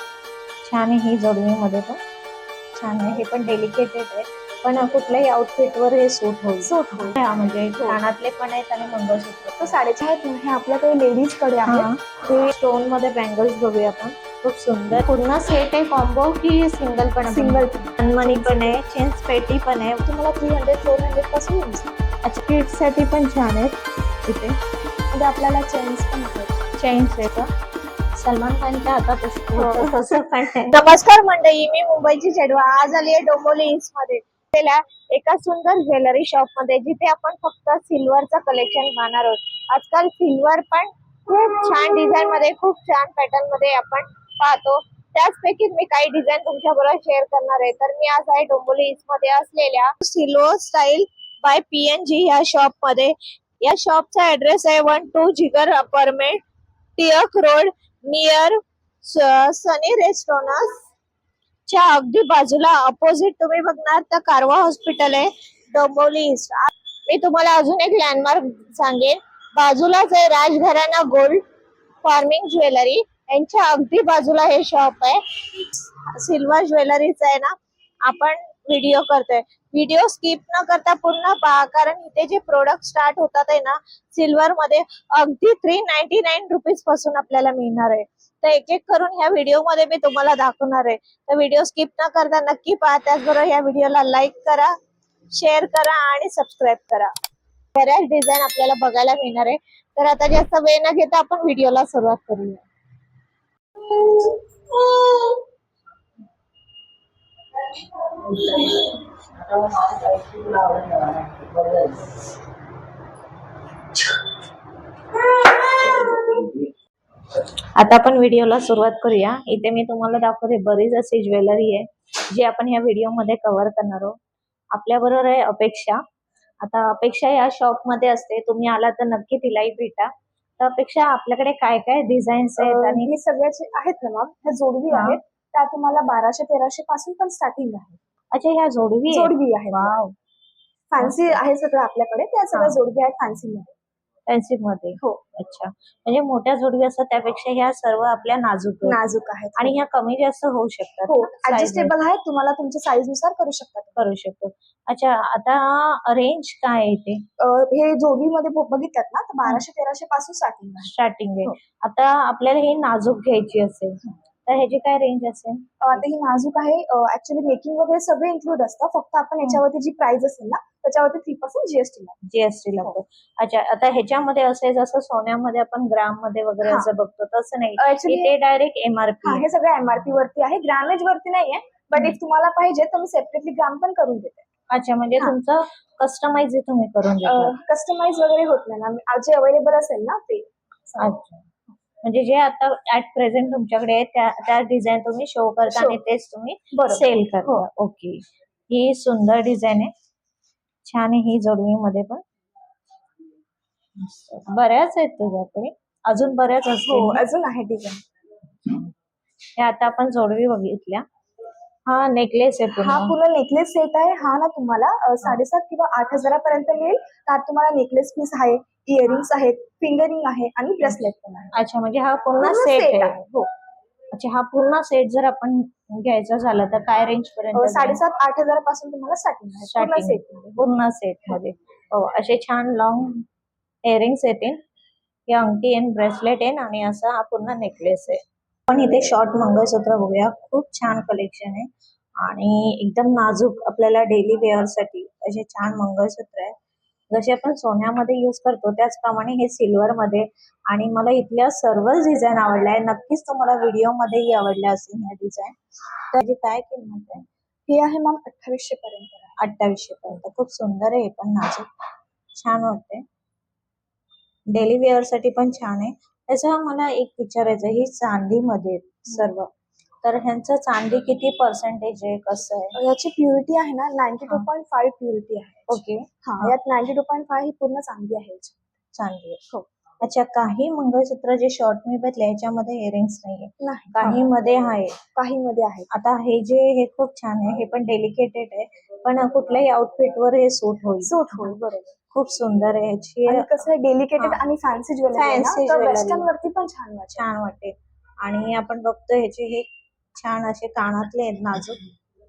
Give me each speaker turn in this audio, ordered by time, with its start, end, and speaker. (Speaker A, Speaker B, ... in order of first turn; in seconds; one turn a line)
Speaker A: 0.6-2.0
Speaker A: 2.7-9.7
Speaker B: 6.6-7.2
Speaker B: 9.6-12.5
Speaker A: 11.7-20.1
Speaker B: 17.3-18.8
Speaker B: 20.1-21.9
Speaker A: 22.2-24.6
Speaker B: 25.1-26.6
Speaker A: 26.8-27.5
Speaker A: 28.2-56.4
Speaker B: 29.6-29.9
Speaker A: 57.0-60.9
Speaker A: 61.7-71.4
Speaker A: 72.0-94.8
Speaker A: 95.3-97.1
Speaker A: 97.7-102.7
Speaker A: 103.9-105.4
Speaker A: 108.2-109.0
Speaker A: 109.5-111.9
Speaker A: 115.2-116.7
Speaker A: 117.8-124.2
Speaker A: 124.7-126.0
Speaker A: 126.6-133.1
Speaker B: 132.6-138.0
Speaker A: 134.9-135.2
Speaker A: 138.3-140.1
Speaker B: 139.1-139.9
Speaker B: 140.9-143.7
Speaker A: 141.0-141.4
Speaker A: 144.3-149.0
Speaker B: 148.8-149.8
Speaker A: 149.6-151.9
Speaker B: 151.1-154.0
Speaker A: 154.0-157.3
Speaker B: 157.4-160.9
Speaker A: 160.8-166.0
Speaker B: 165.8-172.2
Speaker A: 172.2-179.4
Speaker B: 176.6-176.9
Speaker B: 177.8-178.3
Speaker B: 179.2-184.5
Speaker A: 184.7-187.5
Speaker B: 187.2-191.2
Speaker A: 191.0-191.4
Speaker A: 192.0-199.9
Speaker B: 195.7-196.0
Speaker B: 196.7-197.7
Speaker A: 200.8-202.2
Speaker A: 204.0-207.2
Speaker B: 206.9-208.0
Speaker A: 209.6-211.1
Speaker A: 211.9-213.1
Speaker B: 212.8-221.5
Speaker A: 221.5-223.2
Speaker B: 222.4-223.5
Speaker A: 224.1-228.0
Speaker B: 227.5-230.6
Speaker A: 229.6-233.3
Speaker A: 233.8-234.6
Speaker A: 235.3-246.6
Speaker A: 247.1-255.6
Speaker A: 256.1-257.2
Speaker B: 257.7-259.4
Speaker A: 259.4-261.7
Speaker A: 262.4-263.1
Speaker A: 264.5-269.5
Speaker A: 270.0-272.8
Speaker B: 272.8-278.6
Speaker A: 275.7-276.6
Speaker A: 278.9-279.5
Speaker A: 280.0-285.0
Speaker B: 283.6-284.2
Speaker B: 285.2-285.9
Speaker A: 285.9-291.6
Speaker B: 291.0-291.9
Speaker A: 292.1-293.7
Speaker B: 293.3-297.3
Speaker A: 295.1-296.3
Speaker A: 297.1-301.8